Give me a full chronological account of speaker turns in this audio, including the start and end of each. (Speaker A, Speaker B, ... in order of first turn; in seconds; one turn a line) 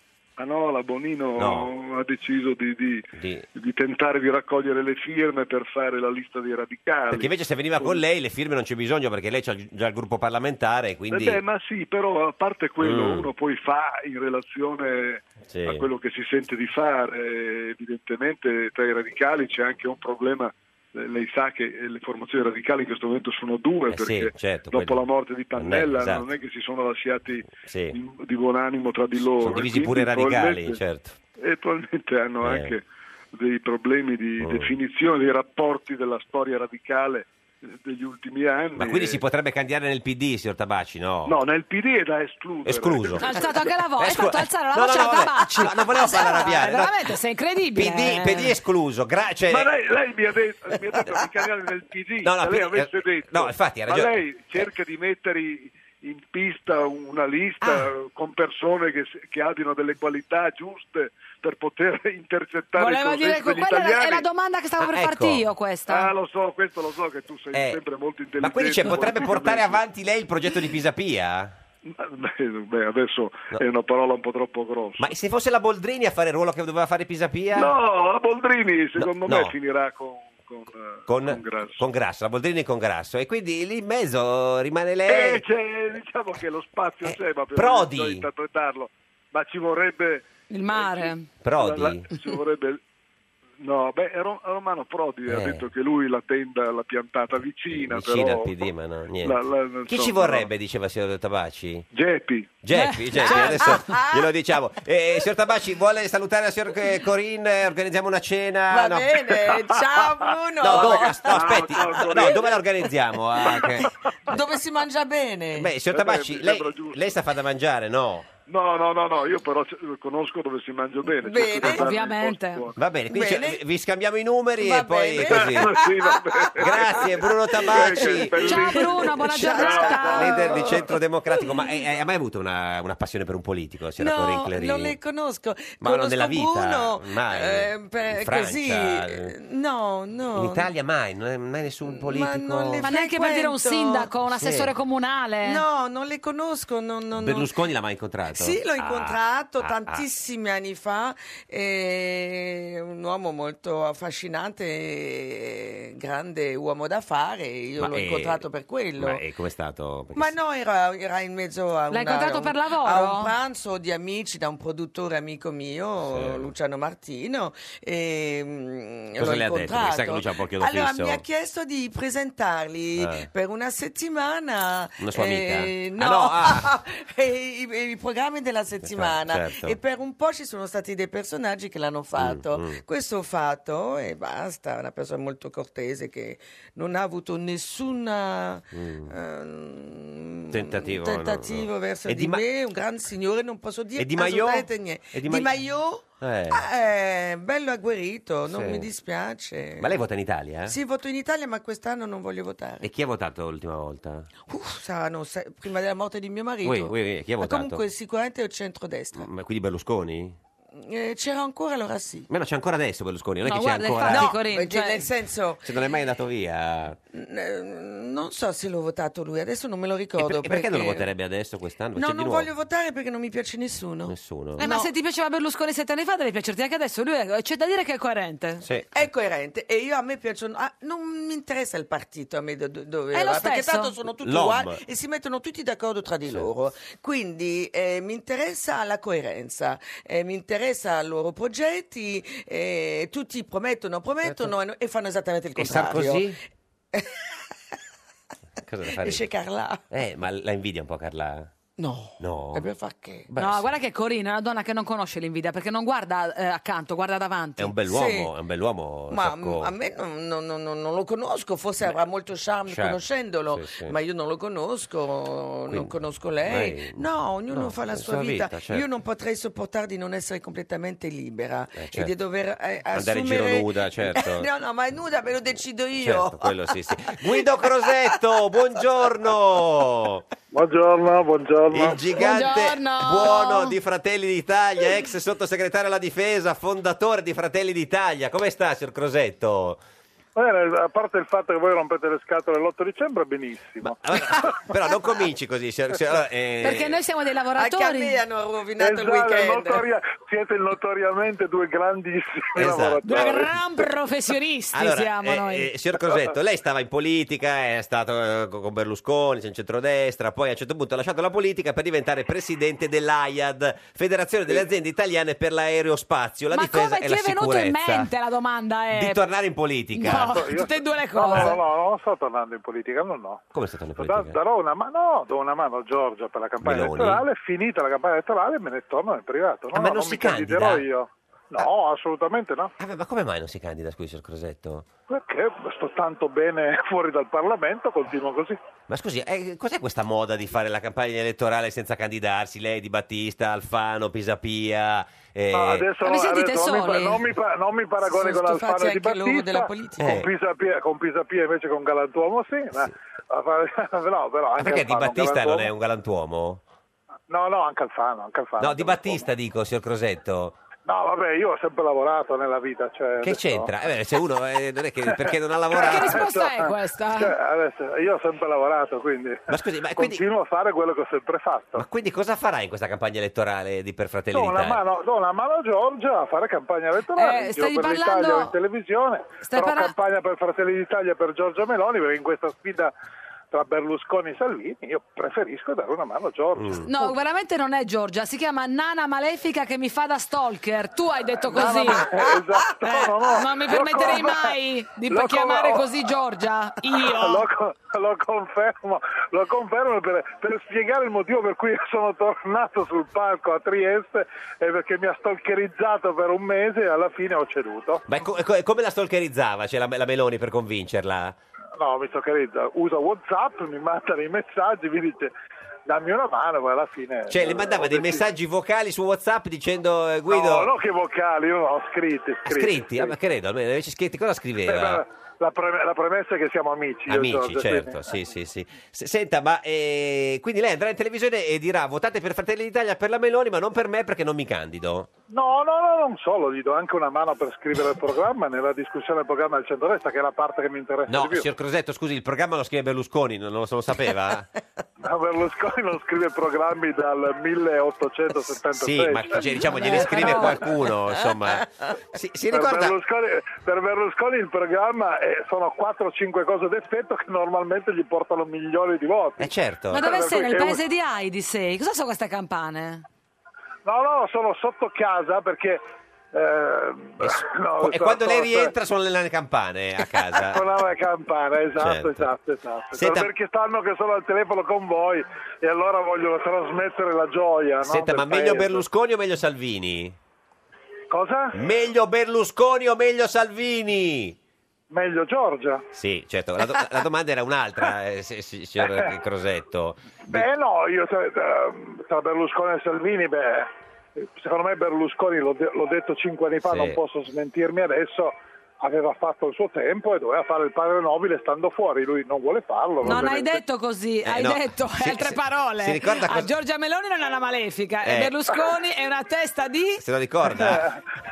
Speaker A: 0.4-8.0
Speaker B: 1.4-1.7
Speaker B: 3.2-3.5
Speaker B: 7.1-11.4
Speaker A: 11.1-30.8
Speaker B: 12.8-13.3
Speaker B: 15.5-15.9
Speaker B: 23.9-26.3
Speaker B: 27.6-28.0
Speaker B: 29.4-31.2
Speaker A: 31.4-39.2
Speaker B: 32.4-32.8
Speaker B: 34.4-34.8
Speaker B: 38.7-41.4
Speaker A: 41.2-43.7
Speaker B: 42.6-43.5
Speaker C: 43.2-48.5
Speaker B: 44.0-47.0
Speaker B: 47.7-49.8
Speaker A: 49.5-64.3
Speaker B: 52.2-54.7
Speaker B: 57.6-57.9
Speaker C: 62.8-66.1
Speaker B: 64.8-65.4
Speaker A: 65.9-69.8
Speaker B: 67.5-67.8
Speaker B: 68.4-71.5
Speaker A: 71.9-75.1
Speaker B: 75.0-77.7
Speaker A: 77.5-81.8
Speaker B: 79.0-79.5
Speaker B: 81.1-85.4
Speaker A: 85.1-92.8
Speaker B: 87.0-88.3
Speaker C: 90.5-91.3
Speaker B: 91.4-92.1
Speaker A: 93.6-98.7
Speaker B: 95.3-95.7
Speaker B: 97.7-101.9
Speaker A: 99.2-100.5
Speaker A: 101.9-102.6
Speaker B: 102.6-109.6
Speaker C: 102.7-103.8
Speaker D: 103.2-104.3
Speaker D: 108.7-112.5
Speaker A: 110.3-112.4
Speaker B: 110.6-114.4
Speaker D: 113.4-113.6
Speaker A: 113.4-114.4
Speaker D: 114.3-115.7
Speaker B: 115.5-118.3
Speaker A: 115.8-117.0
Speaker A: 118.5-122.8
Speaker D: 121.1-121.9
Speaker C: 121.6-122.7
Speaker B: 122.8-128.8
Speaker D: 123.1-123.6
Speaker D: 124.6-131.7
Speaker A: 125.2-127.1
Speaker A: 127.6-128.9
Speaker C: 128.4-130.5
Speaker B: 129.4-135.0
Speaker A: 129.6-130.0
Speaker D: 134.0-140.7
Speaker B: 135.8-139.3
Speaker B: 140.3-142.9
Speaker D: 141.8-144.1
Speaker C: 142.8-145.6
Speaker B: 144.3-144.7
Speaker D: 145.4-147.5
Speaker B: 147.1-150.1
Speaker D: 148.3-159.2
Speaker B: 157.8-158.4
Speaker B: 159.0-160.3
Speaker D: 160.1-199.9
Speaker C: 161.9-163.3
Speaker B: 166.0-166.5
Speaker B: 169.2-171.2
Speaker B: 173.0-173.3
Speaker B: 175.0-176.7
Speaker B: 178.8-179.8
Speaker B: 182.2-182.8
Speaker B: 188.7-189.1
Speaker B: 190.5-192.4
Speaker B: 194.0-195.6
Speaker B: 196.2-196.6
Speaker B: 198.5-198.9
Speaker B: 199.8-200.8
Speaker D: 200.6-202.9
Speaker B: 202.8-204.3
Speaker D: 204.5-209.3
Speaker B: 206.6-207.8
Speaker B: 209.1-210.4
Speaker D: 210.7-212.3
Speaker B: 212.3-214.3
Speaker C: 213.4-215.0
Speaker D: 214.0-215.7
Speaker B: 215.6-217.0
Speaker D: 217.1-221.1
Speaker B: 220.2-222.5
Speaker D: 221.9-224.9
Speaker B: 224.1-224.7
Speaker C: 224.6-228.6
Speaker B: 228.6-228.9
Speaker D: 228.9-246.3
Speaker C: 233.1-233.9
Speaker B: 234.2-234.8
Speaker B: 244.2-244.5
Speaker B: 245.6-246.4
Speaker D: 246.9-247.4
Speaker B: 248.6-249.3
Speaker D: 248.9-249.8
Speaker B: 249.9-251.5
Speaker D: 251.8-253.3
Speaker B: 252.2-252.7
Speaker B: 253.3-253.7
Speaker C: 253.4-257.7
Speaker B: 257.6-259.7
Speaker D: 257.9-258.3
Speaker D: 259.1-276.7
Speaker B: 262.7-263.9
Speaker B: 265.7-268.8
Speaker B: 271.8-272.1
Speaker B: 272.9-274.5
Speaker B: 276.0-280.2
Speaker E: 280.5-282.0
Speaker B: 281.7-289.8
Speaker C: 282.2-283.8
Speaker E: 290.4-294.5
Speaker B: 293.8-297.0
Speaker C: 296.6-298.2
Speaker D: 297.6-299.9
Speaker E: 298.8-303.5
Speaker B: 302.6-303.0
Speaker C: 303.0-305.7
Speaker B: 304.7-318.1
Speaker C: 316.5-319.2
Speaker B: 318.9-320.5
Speaker C: 319.9-321.6
Speaker E: 320.2-323.5
Speaker B: 323.5-324.4
Speaker E: 324.0-332.7
Speaker B: 326.6-327.2
Speaker B: 329.7-330.9
Speaker B: 332.8-334.9
Speaker E: 335.1-338.6
Speaker B: 338.9-345.9
Speaker E: 345.5-355.7
Speaker C: 346.0-347.2
Speaker D: 348.0-350.2
Speaker B: 350.0-350.3
Speaker B: 354.6-356.6
Speaker E: 357.3-359.2
Speaker B: 358.6-360.6
Speaker E: 360.9-363.7
Speaker B: 363.2-366.3
Speaker E: 365.7-371.9
Speaker C: 365.7-367.3
Speaker B: 369.5-370.2
Speaker B: 371.8-374.8
Speaker E: 374.3-382.9
Speaker C: 377.1-378.5
Speaker C: 379.4-379.9
Speaker E: 383.5-386.9
Speaker B: 386.6-386.9
Speaker C: 386.8-392.1
Speaker E: 391.5-396.0
Speaker D: 391.7-392.4
Speaker C: 392.8-397.5
Speaker E: 397.0-408.0
Speaker B: 408.1-411.4
Speaker E: 411.8-415.3
Speaker E: 415.9-418.2
Speaker B: 417.3-420.7
Speaker E: 420.3-423.1
Speaker B: 422.5-425.0
Speaker E: 424.7-428.2
Speaker B: 427.1-435.1
Speaker E: 435.3-441.5
Speaker B: 441.1-444.5
Speaker E: 445.0-450.5
Speaker B: 448.8-453.0
Speaker C: 449.4-450.6
Speaker E: 452.5-460.8
Speaker B: 459.4-460.0
Speaker C: 459.9-463.0
Speaker E: 463.8-465.8
Speaker E: 466.3-468.7
Speaker B: 467.2-470.6
Speaker E: 470.4-478.8
Speaker B: 471.8-472.3
Speaker B: 472.9-473.3
Speaker B: 477.8-480.2
Speaker E: 481.1-481.5
Speaker B: 481.5-484.4
Speaker E: 484.9-485.8
Speaker B: 485.9-490.5
Speaker E: 488.8-489.1
Speaker E: 490.3-503.6
Speaker B: 496.6-497.0
Speaker B: 503.0-503.3
Speaker C: 503.0-510.0
Speaker B: 504.2-506.5
Speaker B: 508.0-508.3
Speaker B: 510.0-510.9
Speaker E: 510.5-511.0